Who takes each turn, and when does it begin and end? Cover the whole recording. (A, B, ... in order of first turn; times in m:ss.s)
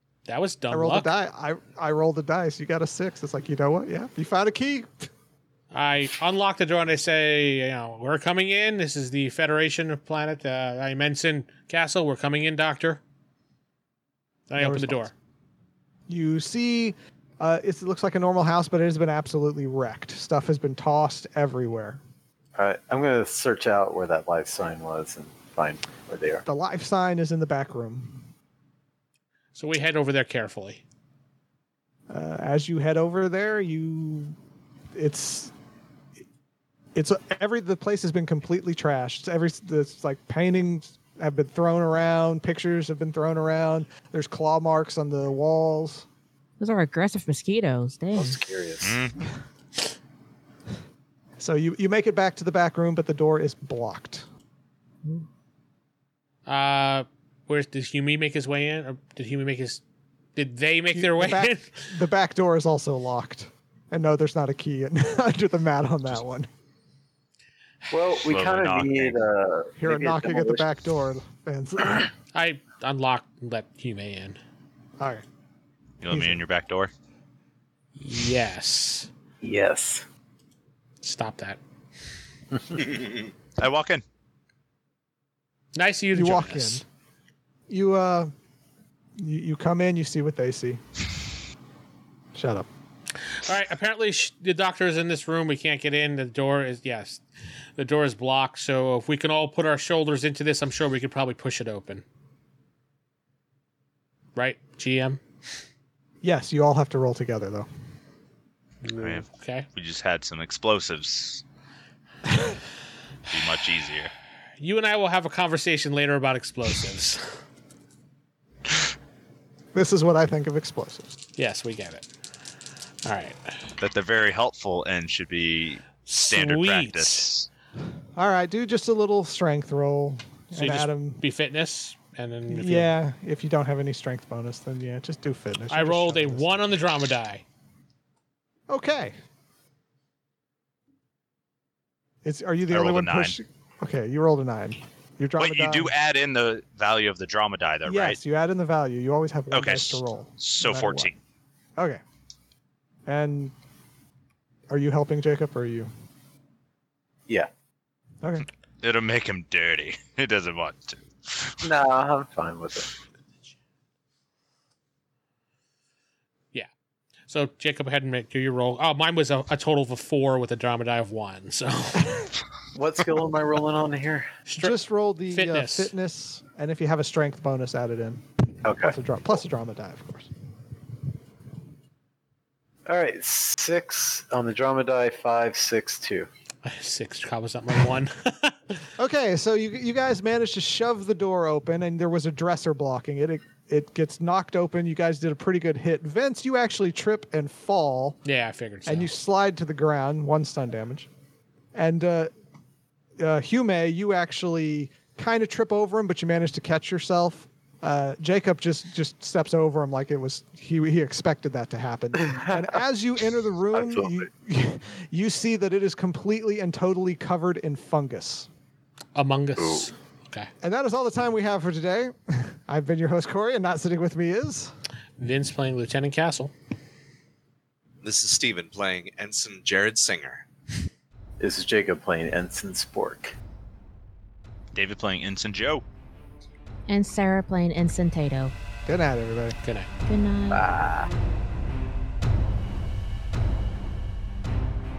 0:00.2-0:01.1 A
0:00.7-0:05.1 B
0:05.7-0:13.0 A
0:14.5-0:15.1 A
0:14.6-0:15.1 B
0:16.1-0:22.0 B
0:22.6-0:26.4 C
0:26.4-0:28.3 B
0:29.5-0:30.8 A
0:32.1-0:34.4 B
0:34.9-0:35.5 B
0:36.9-0:46.0 B
0:46.6-0:48.4 D
0:48.1-0:49.0 C
0:48.8-0:49.3 E
0:51.4-0:54.2 B
0:56.4-0:59.8 A
1:00.4-1:01.9 A
1:00.9-1:06.5 B
1:07.9-1:10.7 C
1:08.2-1:09.2 E
1:09.8-1:12.1 B
1:12.3-1:14.4 A
1:15.0-1:15.2 B
1:16.0-1:16.9 E
1:16.1-1:16.4 B
1:18.0-1:19.1 A
1:19.4-1:20.0 C
1:21.0-1:21.6 A
1:22.5-1:22.8 C
1:23.1-1:24.0 E
1:25.7-1:26.8 A
1:26.1-1:26.8 B
1:27.7-1:28.3 B
1:29.2-1:30.8 B
1:32.3-1:32.7 B
1:33.3-1:37.2 A
1:37.8-1:42.0 A
1:44.4-1:45.2 A
1:46.2-1:47.7 B
1:48.8-1:49.7 A
1:49.0-1:51.4 E
1:53.3-1:54.1 E
1:54.6-1:57.3 A
1:59.7-2:01.1 B
2:01.4-2:02.0 A
2:03.0-2:03.5 A
2:03.8-2:07.5 E
2:06.1-2:07.3 A
2:08.2-2:11.2 B
2:10.5-2:12.9 A
2:12.5-2:16.7 B
2:15.7-2:17.4 A
2:18.7-2:19.2 B
2:22.2-2:25.9 B
2:22.7-2:23.4 E
2:25.4-2:28.2 E
2:27.8-2:31.1 B
2:29.5-2:31.2 E
2:33.0-2:33.5 B
2:34.7-2:35.9 B
2:38.8-2:41.7 E
2:41.6-2:42.9 C
2:47.3-2:52.3 A
2:52.7-2:54.3 C
2:54.5-2:54.8 A
2:54.6-2:58.2 B
2:55.3-2:55.9 A
2:58.6-2:59.0 C
2:58.8-3:00.3 B
3:02.8-3:06.3 C
3:06.6-3:08.8 A
3:09.0-3:18.2 B
3:18.2-3:19.1 A
3:18.8-3:21.1 B
3:21.7-3:22.3 B
3:23.2-3:38.5 B
3:32.2-3:32.6 C
3:33.7-3:34.3 C
3:39.1-3:40.5 A
3:39.6-3:39.9 C
3:40.6-3:44.7 B
3:45.2-3:46.5 A
3:48.0-3:50.4 F
3:51.4-3:53.3 C
3:54.7-3:55.8 E
3:56.9-3:58.5 D
3:58.8-3:59.6 B
3:59.6-3:59.9 A
4:00.1-4:00.7 D
4:00.5-4:01.1 C